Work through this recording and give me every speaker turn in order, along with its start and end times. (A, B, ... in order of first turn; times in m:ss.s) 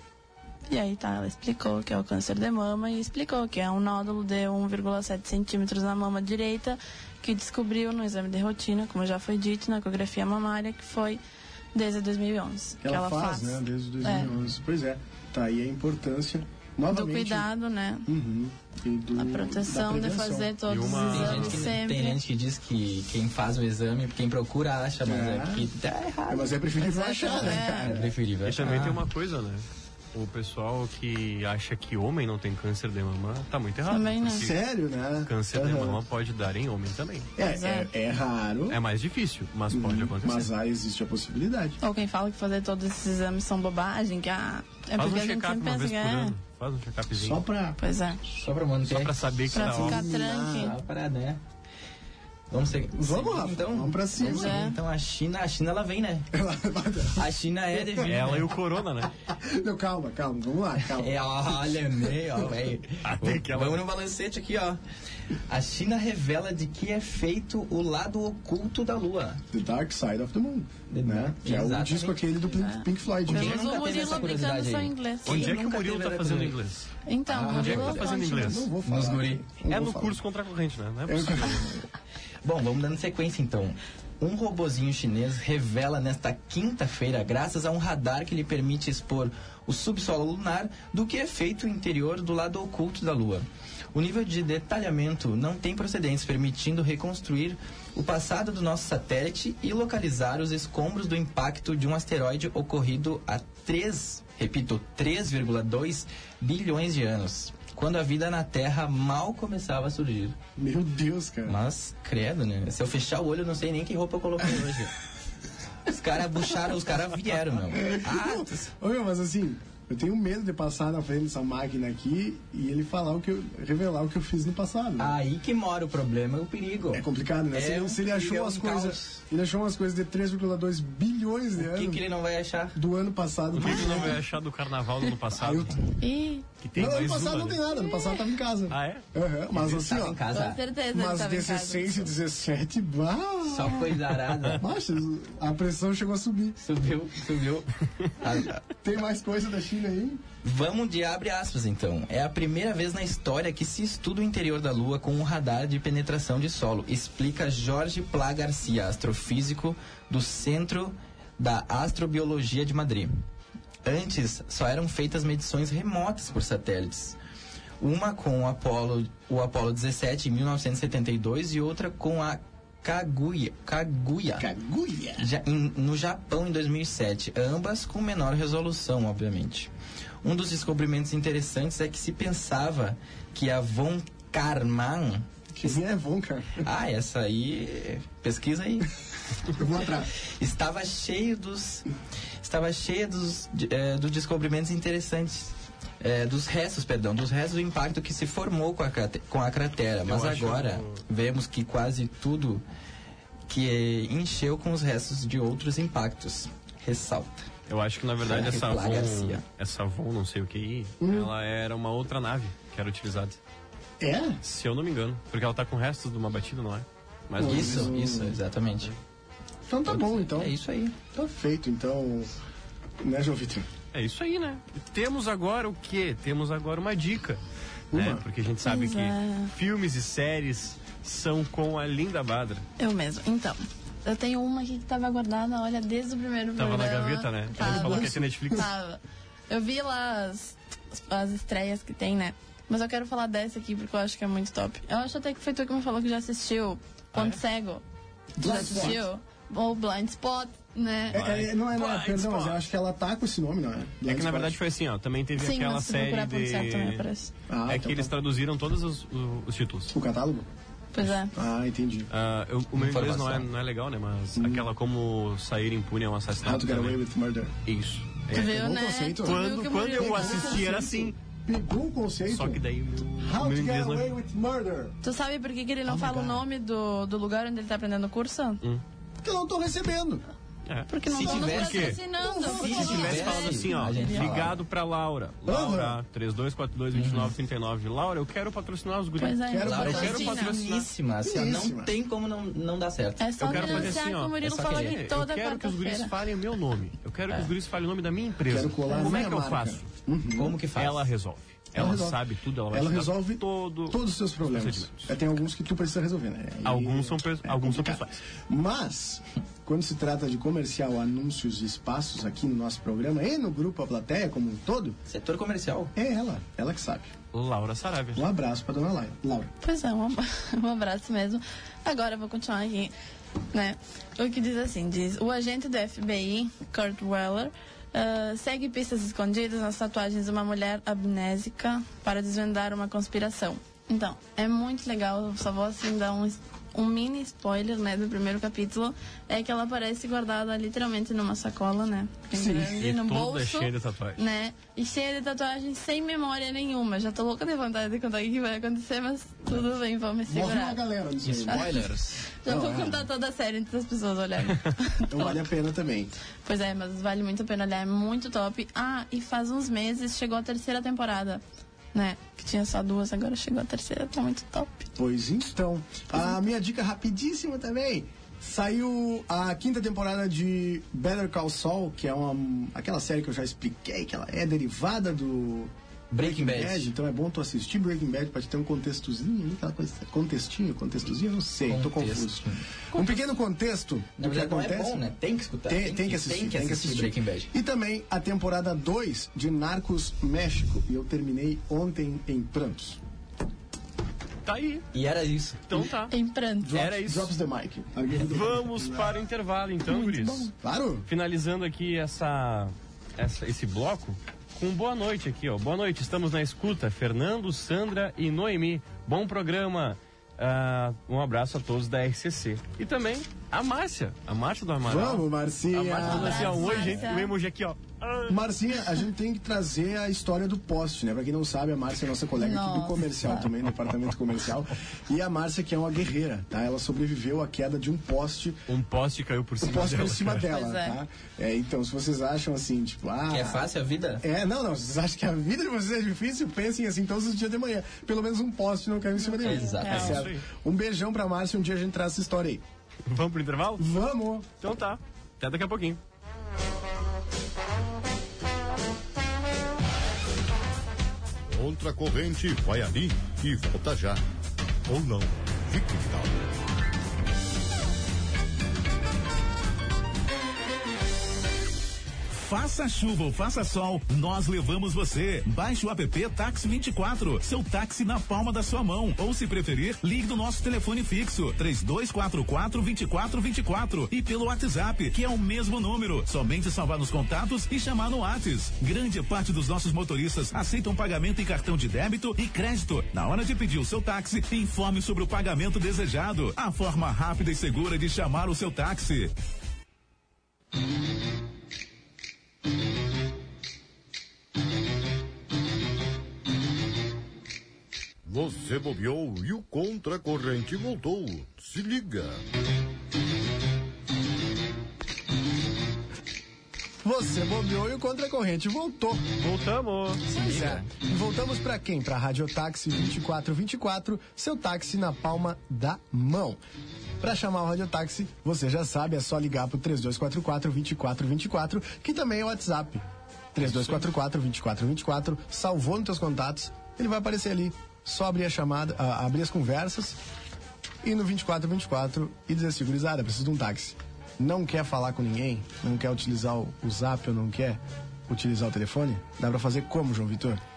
0:00.7-0:11.2 A
0:11.7-0:14.3 A
0:12.8-0:17.5 B
0:16.9-0:18.1 A
0:18.0-0:20.6 B
0:19.2-0:22.2 A
0:20.7-0:21.7 C
0:21.0-0:26.6 D
0:25.0-0:25.7 B
0:26.3-0:28.1 B
0:26.8-0:27.9 A
0:27.3-0:29.0 D
0:28.4-0:34.6 C
0:33.9-0:34.5 A
0:34.3-0:36.0 B
0:35.2-0:37.3 C
0:37.4-0:38.8 B
0:37.4-0:37.9 A
0:38.7-0:40.5 C
0:39.7-0:41.8 B
0:41.8-0:46.3 A
0:45.0-0:47.4 C
0:47.1-0:47.8 B
0:47.8-0:48.2 A
0:48.3-0:49.1 D
0:48.8-0:50.1 C
0:49.5-0:50.7 A
0:49.5-0:50.7 B
0:50.3-0:51.4 D
0:52.5-0:56.3 D
0:52.9-0:54.6 B
0:54.2-0:54.8 A
0:56.3-0:58.2 B
0:57.2-0:58.4 D
0:58.0-0:59.1 C
0:59.2-1:02.3 B
1:00.9-1:04.8 D
1:03.0-1:03.8 C
1:05.5-1:09.4 D
1:09.5-1:13.9 B
1:10.9-1:12.2 D
1:12.4-1:15.6 A
1:13.3-1:16.6 D
1:15.2-1:16.9 C
1:17.0-1:18.7 A
1:17.3-1:18.1 D
1:17.5-1:18.7 C
1:18.4-1:20.2 B
1:18.8-1:19.4 D
1:19.7-1:21.7 C
1:21.1-1:21.8 B
1:22.4-1:50.4 D
1:50.6-1:51.6 B
1:51.4-1:54.9 D
1:55.8-1:58.7 D
1:57.7-2:05.2 B
2:05.0-2:09.2 D
2:06.9-2:12.0 B
2:11.6-2:12.8 D
2:12.7-2:14.2 B
2:13.5-2:15.9 C
2:15.3-2:15.7 B
2:16.0-2:16.4 A
2:16.6-2:17.7 C
2:16.7-2:20.2 B
2:17.9-2:18.2 A
2:18.7-2:19.0 C
2:19.5-2:20.6 D
2:20.3-2:22.1 A
2:20.9-2:24.0 B
2:23.4-2:24.6 D
2:24.6-2:26.6 B
2:26.6-2:28.6 D
2:28.7-2:30.2 B
2:30.4-2:43.1 D
2:43.8-2:47.2 D
2:47.8-2:54.5 D
2:54.4-2:55.3 B
2:55.2-2:59.7 D
3:00.2-3:05.8 D
3:05.5-3:06.6 B
3:06.6-3:08.9 D
3:09.5-3:10.1 B
3:10.2-3:11.8 D
3:12.4-3:22.6 D
3:20.0-3:21.0 C
3:23.5-3:27.5 D
3:27.7-3:33.4 C
3:28.2-3:29.4 D
3:31.0-3:31.3 B
3:34.0-3:34.4 B
3:34.4-3:38.0 C
3:37.4-3:38.4 B
3:37.4-3:38.9 D
3:39.6-3:40.5 B
3:39.8-3:41.0 D
3:41.1-3:42.3 B
3:43.0-3:43.7 B
3:43.9-3:47.4 C
3:47.9-3:48.2 B
3:47.9-3:52.6 C
3:48.6-3:49.5 A
3:52.8-4:07.8 A
3:56.6-3:58.7 C
3:57.6-3:58.6 B
4:07.1-4:07.4 C
4:08.4-4:09.0 B
4:08.4-4:11.2 A
4:11.1-4:12.6 C
4:11.1-4:14.6 B
4:14.0-4:17.1 C
4:15.4-4:17.3 A
4:17.5-4:18.1 B
4:17.7-4:19.9 C
4:19.9-4:20.5 B
4:20.9-4:21.3 A
4:21.2-4:22.1 B
4:22.1-4:27.0 C
4:22.8-4:23.5 D
4:24.4-4:24.7 B
4:26.4-4:27.5 B
4:27.6-4:28.6 C
4:28.3-4:32.6 B
4:28.3-4:30.6 A
4:29.2-4:31.1 C
4:32.3-4:34.1 C
4:33.2-4:35.0 B
4:35.0-4:38.6 A
4:35.8-4:36.4 B
4:39.2-4:40.3 B
4:40.6-4:50.9 C
4:40.9-4:44.4 A
4:41.0-4:44.6 D
4:42.2-4:42.9 B
4:45.4-4:46.0 B
4:46.9-4:47.3 D
4:49.2-4:50.6 A
4:49.4-4:50.2 B
4:49.6-4:55.0 D
4:51.2-4:51.9 B
4:53.2-4:56.1 A
4:53.4-4:59.9 C
4:58.5-5:00.6 B
5:00.4-5:01.1 D
5:00.8-5:05.1 C
5:01.7-5:15.0 B
5:06.6-5:08.2 C
5:15.1-5:15.9 D
5:15.9-5:17.1 B
5:17.3-5:18.2 C
5:18.1-5:19.5 B
5:19.6-5:22.9 A
5:23.5-5:50.8 A
5:42.3-5:42.8 B
5:42.7-5:44.2 C
5:50.3-5:51.7 B
5:51.2-5:52.3 D
5:51.4-5:55.4 A
5:52.4-5:53.1 B
5:55.1-5:56.1 B
5:56.4-6:01.4 A
6:01.9-6:04.9 A
6:05.0-6:25.0 B
6:16.1-6:16.9 D
6:21.7-6:22.6 D
6:24.2-6:27.5 D
6:25.7-6:33.0 B
6:34.4-6:34.8 C
6:34.9-6:35.7 D
6:35.7-6:36.1 C
6:36.1-6:36.7 A
6:36.6-6:39.2 B
6:36.7-6:37.3 C
6:38.2-6:40.5 C
6:39.9-6:41.1 B
6:41.1-6:58.4 C
6:54.8-6:57.1 B
6:56.0-6:57.3 A
6:58.3-7:08.6 B
7:02.4-7:03.5 A
7:08.7-7:10.5 C
7:09.6-7:13.6 B
7:10.5-7:11.0 A
7:13.3-7:14.2 D
7:14.2-7:22.6 B
7:19.4-7:20.2 A
7:19.4-7:20.2 D
7:19.8-7:20.4 C
7:23.1-7:23.8 C
7:23.8-7:24.5 B
7:24.6-7:26.0 C
7:31.5-7:34.2 E
7:34.9-7:36.4 E
7:42.3-8:09.3 F
8:18.2-8:22.4 E
8:27.0-8:29.3 B
8:29.4-8:30.4 C
8:30.3-8:36.6 B
8:30.3-8:30.9 D
8:37.2-8:50.2 B
8:43.6-8:44.0 C
8:51.0-9:00.6 B